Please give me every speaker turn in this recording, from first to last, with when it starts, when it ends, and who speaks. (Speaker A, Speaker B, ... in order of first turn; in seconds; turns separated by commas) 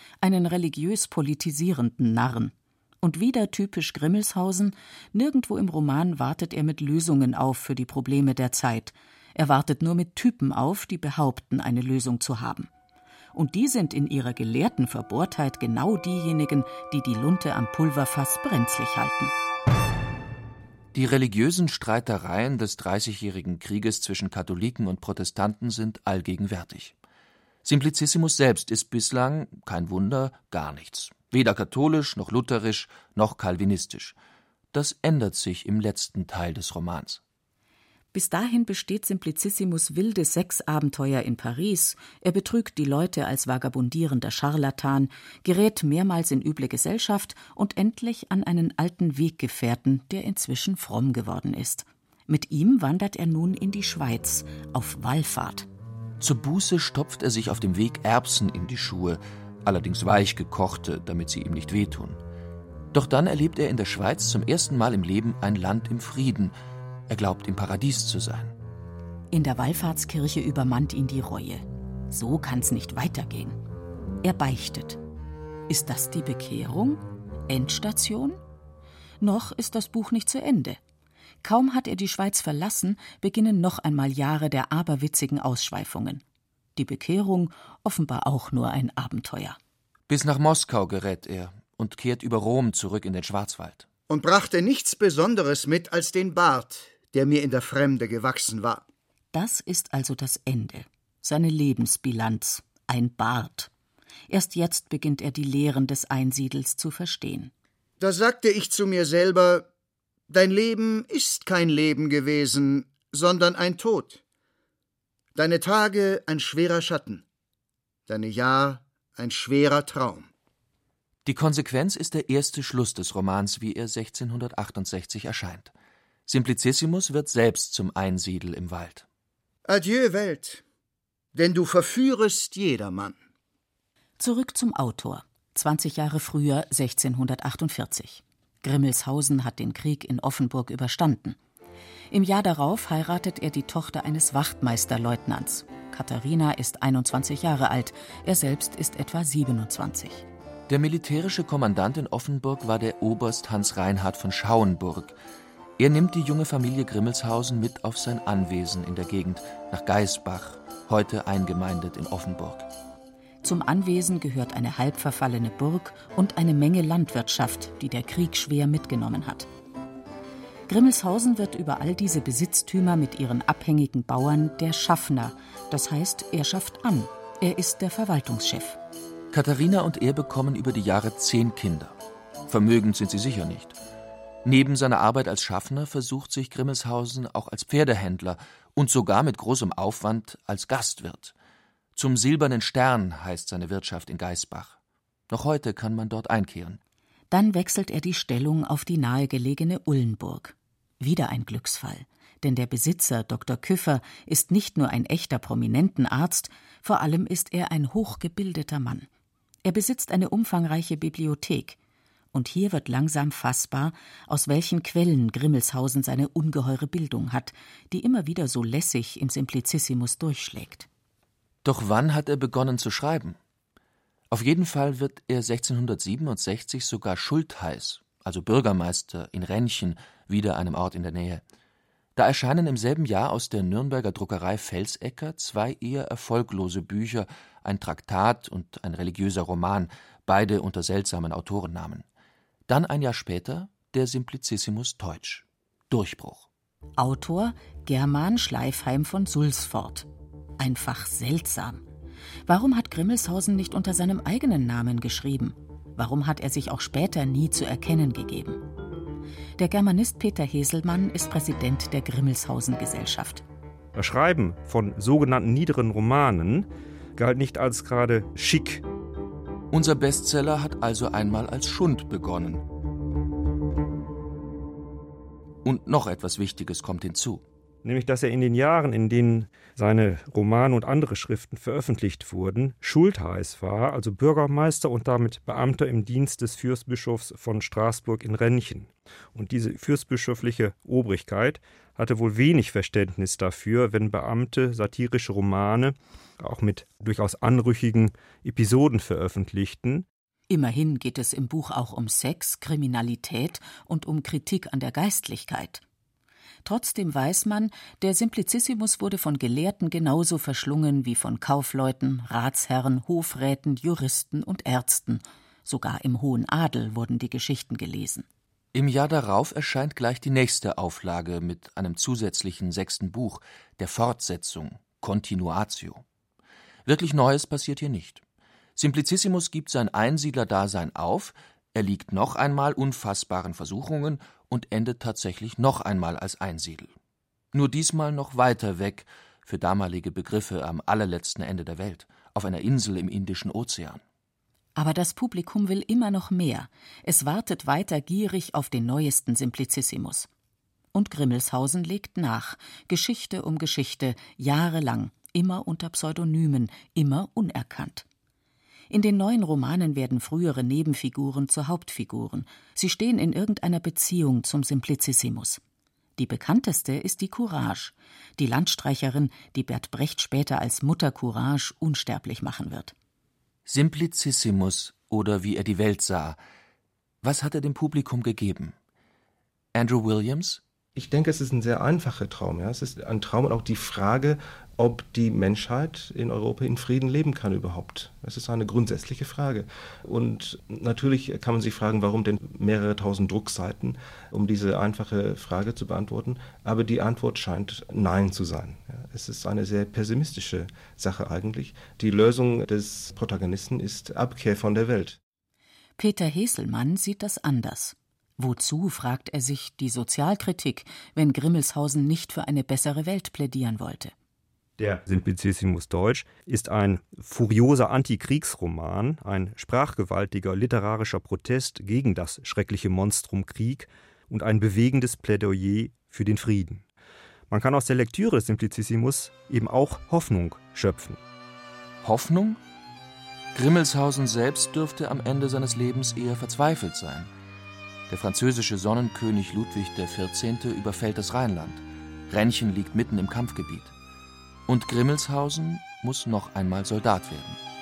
Speaker A: 0.2-12.7, Speaker A: 13.3-19.3, Speaker B: 20.9-26.9, Speaker B: 27.6-34.1, Speaker B: 34.7-37.2, Speaker A: 38.1-55.7, Speaker B: 56.2-62.2, Speaker B: 62.9-66.5, Speaker B: 67.1-68.5, Speaker A: 69.3-73.6, Speaker A: 74.2-75.0, Speaker A: 75.7-78.4, Speaker A: 79.2-80.8, Speaker A: 81.4-86.2, Speaker A: 86.8-89.6, Speaker B: 90.1-93.8, Speaker C: 94.1-98.8, Speaker A: 99.3-103.7, Speaker A: 104.3-107.5, Speaker C: 108.0-109.7, Speaker C: 110.3-114.2, Speaker C: 115.3-117.2, Speaker C: 118.1-120.3, Speaker B: 121.2-125.7, Speaker B: 126.3-129.1, Speaker C: 129.7-130.6, Speaker C: 131.3-133.2, Speaker A: 134.2-141.4, Speaker A: 142.1-150.3, Speaker B: 150.7-155.2, Speaker B: 155.8-162.7, Speaker A: 163.4-169.5, Speaker A: 170.7-178.8, Speaker B: 179.3-181.9, Speaker B: 182.5-183.8, Speaker B: 184.4-191.3, Speaker B: 191.9-194.8, Speaker B: 195.3-196.8, Speaker A: 197.3-209.1, Speaker A: 209.7-211.8, Speaker A: 212.3-220.9, Speaker B: 221.7-223.4, Speaker B: 224.3-231.4, Speaker B: 232.2-242.1, Speaker B: 242.7-246.5, Speaker A: 247.0-250.1, Speaker A: 250.6-251.8, Speaker A: 252.5-258.6, Speaker A: 259.6-263.4, Speaker D: 264.0-268.8, Speaker B: 269.7-272.6, Speaker B: 275.6-277.4, Speaker D: 277.8-300.1, Speaker A: 300.5-305.8, Speaker A: 306.6-318.3, Speaker B: 318.7-326.0, Speaker B: 326.9-328.2, Speaker B: 328.8-336.9, Speaker B: 337.5-344.0, Speaker A: 344.8-350.3, Speaker A: 350.9-358.1, Speaker A: 358.9-365.6, Speaker A: 366.2-372.9, Speaker B: 373.7-376.4, Speaker B: 377.2-378.8, Speaker B: 379.8-380.6, Speaker E: 380.9-405.2, Speaker A: 406.0-414.1, Speaker D: 414.8-426.8, Speaker D: 427.5-431.2, Speaker B: 432.0-432.6, Speaker B: 433.5-437.3, Speaker B: 438.1-443.9, Speaker B: 444.7-447.6